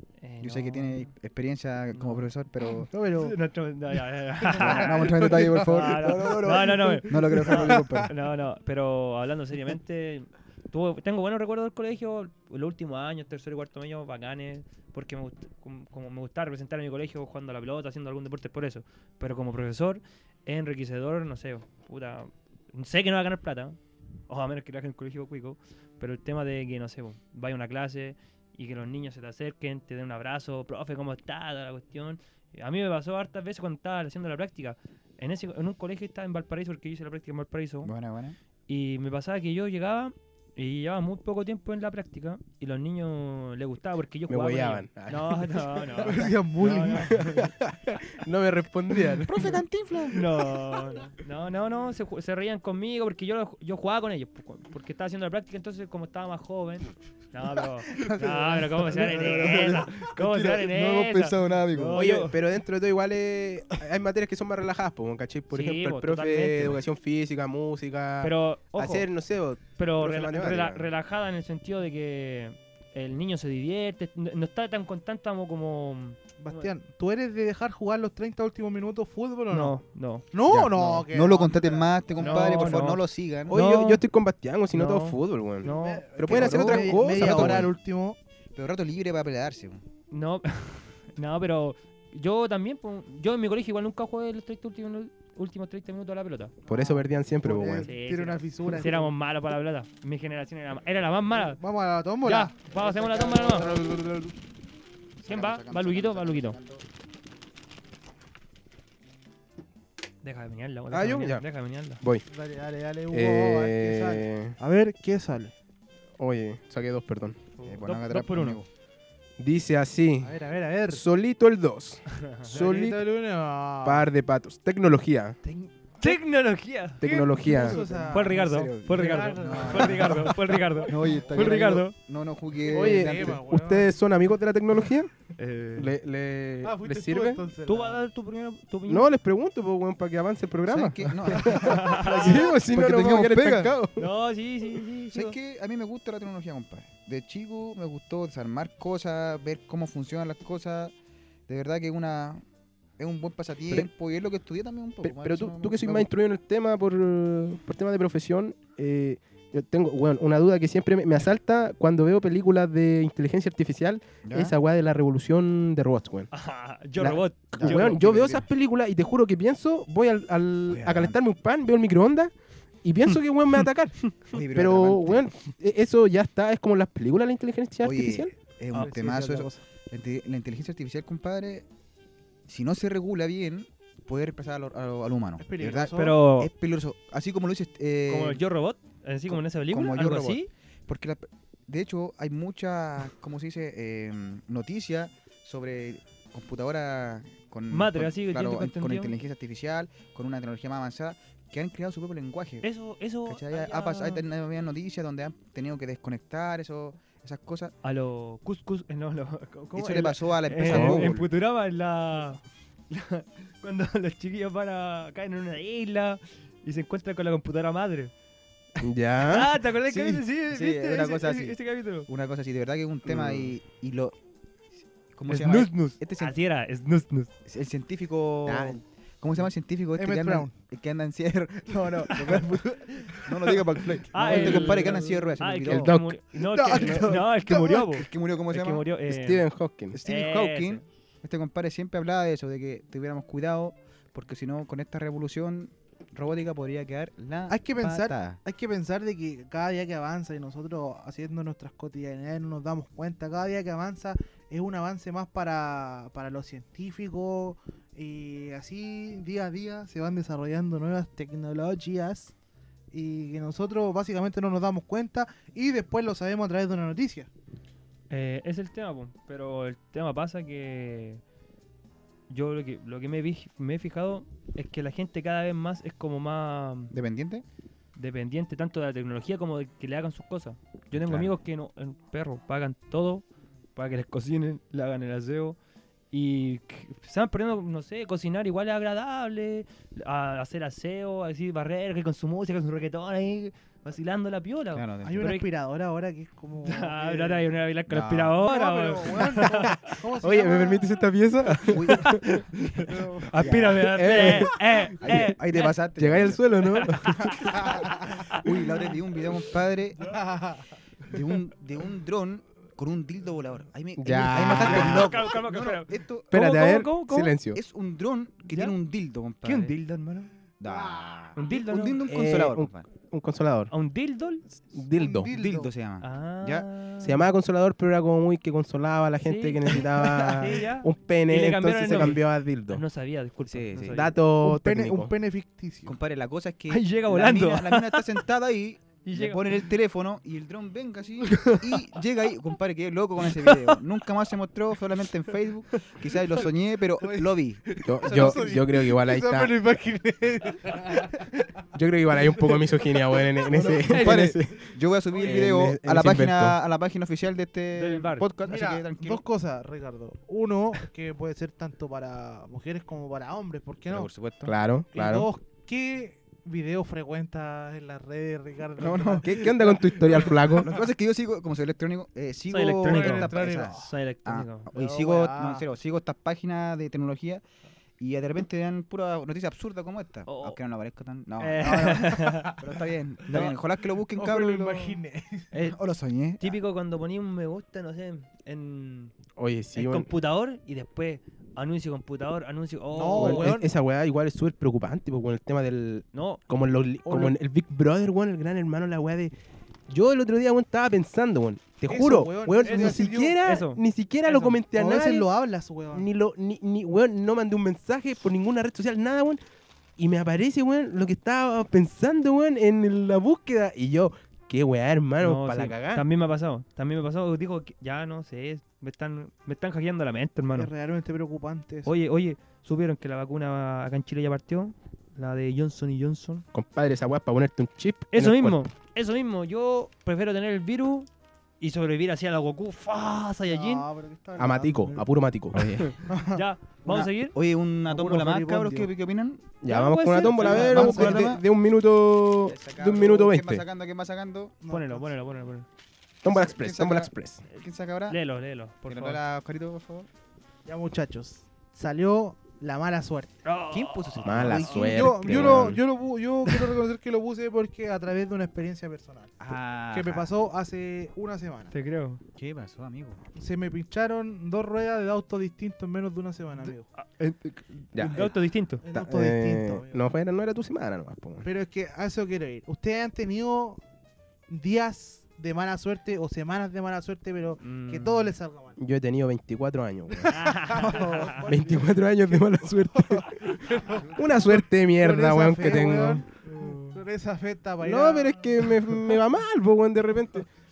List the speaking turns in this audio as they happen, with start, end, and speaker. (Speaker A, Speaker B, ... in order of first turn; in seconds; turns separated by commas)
Speaker A: 0.2-1.1, Speaker B: 0.4-2.9, Speaker A: 2.0-2.3, Speaker C: 2.8-3.4, Speaker A: 3.2-37.9, Speaker C: 4.4-8.1, Speaker B: 4.6-8.1, Speaker B: 37.8-38.4, Speaker A: 38.7-47.5, Speaker D: 44.3-45.9, Speaker C: 46.0-47.3, Speaker D: 47.0-49.6, Speaker B: 49.3-50.2, Speaker A: 50.1-62.4, Speaker B: 58.0-62.1, Speaker C: 58.0-58.4, Speaker C: 58.9-59.7, Speaker D: 61.9-70.9, Speaker A: 65.5-66.8, Speaker A: 68.2-69.1, Speaker A: 69.8-76.7, Speaker C: 76.4-79.8, Speaker A: 79.5-80.3, Speaker C: 80.3-82.8, Speaker B: 80.5-83.6, Speaker A: 82.2-84.0, Speaker D: 83.5-87.7, Speaker A: 84.7-86.1, Speaker C: 85.6-88.2, Speaker B: 86.2-87.7, Speaker B: 88.5-89.8, Speaker A: 90.1-96.5, Speaker D: 96.7-97.9, Speaker C: 96.7-99.1, Speaker A: 97.9-101.6, Speaker C: 101.4-104.2, Speaker A: 102.2-103.8, Speaker D: 103.8-104.2, Speaker B: 105.2-106.8, Speaker A: 105.3-106.6, Speaker A: 110.2-112.0, Speaker D: 110.9-111.4, Speaker C: 112.3-115.5, Speaker D: 113.1-114.6, Speaker D: 116.2-117.4, Speaker A: 117.6-118.6, Speaker B: 117.6-118.7, Speaker D: 119.4-120.4, Speaker C: 120.2-121.0, Speaker D: 120.9-123.0, Speaker A: 122.1-122.5, Speaker C: 122.5-124.1, Speaker D: 123.8-125.4, Speaker A: 125.4-127.0, Speaker D: 127.0-127.8, Speaker C: 127.0-131.5, Speaker B: 127.5-133.4, Speaker A: 128.1-131.9, Speaker C: 132.6-133.9, Speaker D: 132.7-135.1, Speaker A: 135.4-135.9, Speaker D: 135.8-137.5, Speaker C: 136.6-138.0, Speaker A: 137.7-139.1, Speaker D: 138.9-144.1, Speaker B: 140.7-143.8, Speaker A: 141.5-142.4, Speaker A: 144.0-145.4, Speaker B: 145.1-150.9, Speaker B: 151.5-152.4, Speaker B: 153.0-156.1, Speaker D: 155.0-166.3, Speaker B: 164.2-164.6, Speaker A: 166.3-168.0, Speaker B: 167.0-168.5, Speaker D: 167.6-172.3, Speaker B: 170.7-171.2, Speaker D: 172.8-178.3, Speaker B: 174.3-175.3, Speaker B: 177.8-181.7, Speaker C: 178.7-179.6, Speaker B: 182.5-188.4, Speaker C: 185.4-186.2, Speaker A: 186.0-186.5, Speaker A: 188.1-190.5, Speaker B: 189.3-202.7, Speaker A: 197.7-199.2, Speaker A: 202.6-204.2, Speaker B: 203.3-207.7, Speaker A: 207.8-218.1, Speaker B: 209.8-211.3, Speaker D: 210.7-211.2, Speaker D: 218.8-219.5, Speaker A: 218.8-222.1, Speaker B: 219.9-224.2, Speaker D: 223.1-223.5, Speaker B: 225.1-226.4, Speaker A: 225.3-227.3, Speaker B: 227.5-235.9, Speaker D: 228.5-228.8, Speaker C: 230.0-230.5, Speaker A: 232.1-232.4, Speaker A: 234.1-240.8, Speaker D: 234.2-234.9, Speaker C: 234.3-234.6, Speaker D: 235.7-237.2, Speaker C: 236.6-237.3, Speaker B: 237.4-238.9, Speaker D: 239.1-240.0, Speaker B: 239.9-248.4, Speaker C: 247.5-262.3, Speaker C: 262.9-267.3, Speaker A: 268.1-271.2, Speaker A: 272.3-276.9, Speaker B: 276.9-277.4, Speaker A: 277.9-285.6, Speaker B: 280.9-281.3, Speaker A: 286.1-295.5, Speaker B: 294.7-295.3, Speaker C: 295.0-297.5, Speaker A: 296.6-299.7, Speaker B: 297.9-298.4, Speaker C: 298.4-300.9, Speaker D: 299.5-302.3, Speaker B: 301.7-304.3, Speaker A: 301.9-302.4, Speaker C: 302.9-303.3, Speaker A: 303.3-305.7, Speaker D: 303.9-304.6, Speaker B: 305.0-310.2, Speaker D: 306.0-307.6, Speaker A: 306.6-307.7, Speaker C: 307.6-308.0, Speaker C: 310.0-310.6, Speaker B: 311.1-316.3, Speaker D: 314.0-315.2, Speaker A: 314.4-317.3, Speaker C: 314.7-315.1, Speaker D: 316.3-317.6, Speaker B: 317.5-319.8, Speaker A: 318.5-318.8, Speaker A: 319.4-320.3, Speaker B: 320.6-322.9, Speaker C: 320.7-321.1, Speaker A: 321.4-322.0, Speaker D: 322.1-323.7, Speaker A: 323.7-324.5, Speaker D: 324.7-325.3, Speaker C: 325.0-325.7, Speaker B: 325.2-326.7, Speaker A: 326.0-327.3, Speaker D: 327.0-332.8, Speaker A: 329.2-334.1, Speaker B: 333.5-334.1, Speaker D: 333.9-335.1, Speaker C: 334.4-335.9, Speaker B: 335.9-348.6, Speaker A: 336.7-338.2, Speaker A: 339.1-339.4, Speaker A: 341.3-341.6, Speaker A: 343.4-343.8, Speaker C: 347.0-351.3, Speaker D: 347.9-349.5, Speaker D: 351.7-354.7, Speaker C: 353.5-354.1, Speaker B: 353.9-359.2, Speaker C: 355.1-355.4, Speaker D: 355.2-356.6, Speaker A: 357.7-358.3, Speaker C: 358.4-364.1, Speaker B: 363.9-364.6, Speaker D: 364.4-365.3, Speaker C: 364.9-370.6, Speaker B: 368.8-377.4, Speaker D: 369.2-370.8, Speaker A: 372.5-374.7, Speaker C: 372.9-373.9, Speaker C: 374.7-375.6, Speaker B: 378.0-382.0, Speaker A: 380.3-380.6, Speaker A: 381.4-382.5, Speaker C: 381.6-382.7, Speaker B: 382.6-385.0, Speaker A: 383.3-383.6, Speaker C: 384.2-385.5, Speaker A: 385.5-385.8, Speaker B: 385.6-386.6, Speaker A: 386.4-389.1, Speaker D: 389.4-390.1, Speaker A: 389.7-393.6, Speaker C: 392.9-393.7, Speaker D: 393.2-399.3, Speaker A: 396.1-396.4, Speaker C: 397.1-397.4, Speaker D: 399.9-405.3, Speaker C: 401.9-403.4, Speaker A: 402.6-403.8, Speaker C: 404.2-406.1, Speaker D: 405.9-409.4, Speaker D: 410.0-416.1, Speaker A: 415.2-420.7, Speaker C: 420.6-421.9, Speaker A: 421.9-426.4, Speaker D: 426.5-428.7, Speaker A: 428.1-431.1, Speaker A: 431.6-433.9, Speaker C: 433.5-435.1, Speaker D: 434.4-435.9, Speaker A: 435.8-437.4, Speaker C: 436.1-436.4, Speaker B: 436.9-439.5, Speaker C: 437.9-438.9, Speaker D: 439.6-443.6, Speaker A: 439.6-441.1, Speaker B: 440.2-441.4, Speaker C: 440.4-441.2, Speaker B: 442.5-444.6, Speaker C: 444.6-445.1, Speaker A: 444.7-445.7, Speaker D: 446.2-447.4, Speaker B: 446.2-448.2, Speaker A: 448.1-449.2, Speaker B: 448.9-450.1, Speaker C: 450.7-453.3, Speaker A: 453.4-454.9, Speaker B: 453.7-455.7, Speaker D: 454.2-455.8, Speaker C: 454.9-459.3, Speaker A: 456.5-456.7, Speaker B: 459.4-460.3, Speaker C: 459.9-461.7, Speaker A: 461.7-462.2, Speaker B: 462.4-463.2, Speaker C: 463.4-466.9, Speaker A: 467.0-467.4, Speaker B: 467.4-468.3, Speaker D: 467.9-468.2, Speaker A: 468.1-468.8, Speaker C: 468.8-470.1, Speaker D: 468.9-471.5, Speaker C: 471.4-473.8, Speaker C: 474.5-478.8, Speaker A: 477.6-478.3, Speaker D: 478.8-480.3, Speaker C: 480.1-489.2, Speaker A: 480.3-481.4, Speaker D: 481.4-486.3, Speaker A: 486.5-487.0, Speaker D: 487.8-490.5